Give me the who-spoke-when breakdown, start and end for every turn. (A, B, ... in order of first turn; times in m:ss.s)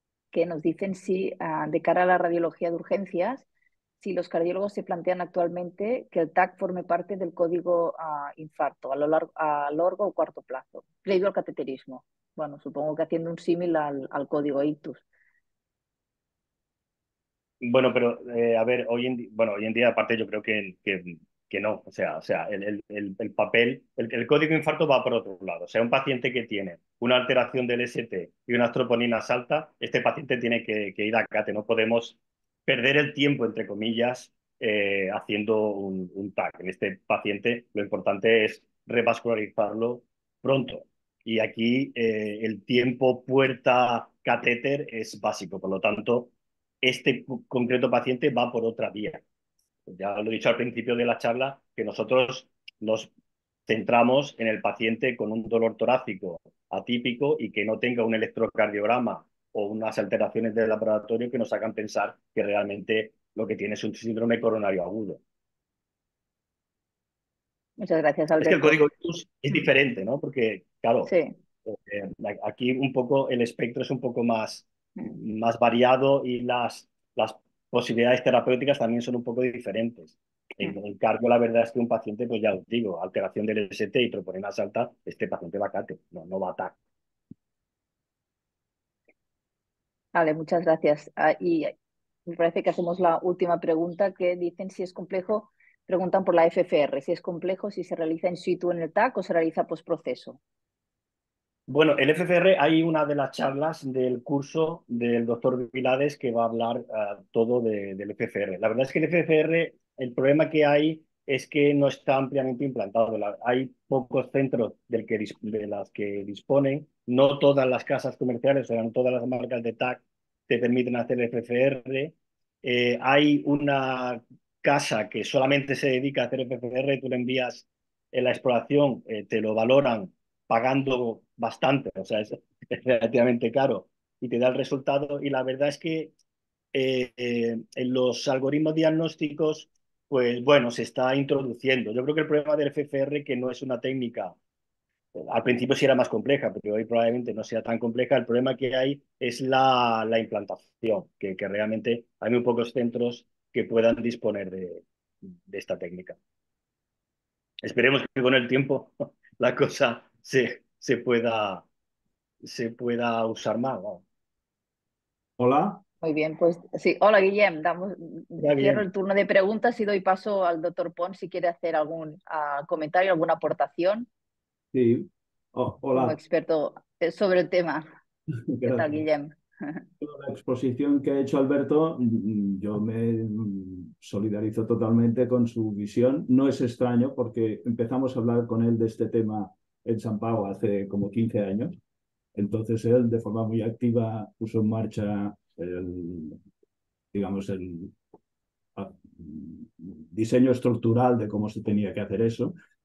0:00.3-0:03.5 A
0:04.0-0:15.0 A
0:17.6-0:49.2 B
0:49.9-0:53.1 B
0:53.7-1:05.2 B
1:07.8-1:08.8 A
1:08.4-1:11.1 B
1:11.1-1:11.4 A
1:11.7-1:26.8 B
1:30.2-1:31.8 A
1:32.3-1:40.4 A
1:41.7-2:16.1 B
2:16.7-2:24.4 B
2:25.2-2:36.2 B
2:37.6-2:41.7 B
2:42.4-2:44.0 B
2:45.4-2:45.8 C
2:46.0-2:54.1 A
2:48.4-2:48.9 B
2:54.7-2:56.2 C
2:55.9-2:57.9 A
2:58.5-2:59.0 C
2:58.6-2:59.8 A
3:00.0-3:11.8 C
3:12.4-3:16.4 C
3:17.1-3:18.0 C
3:18.8-3:22.5 C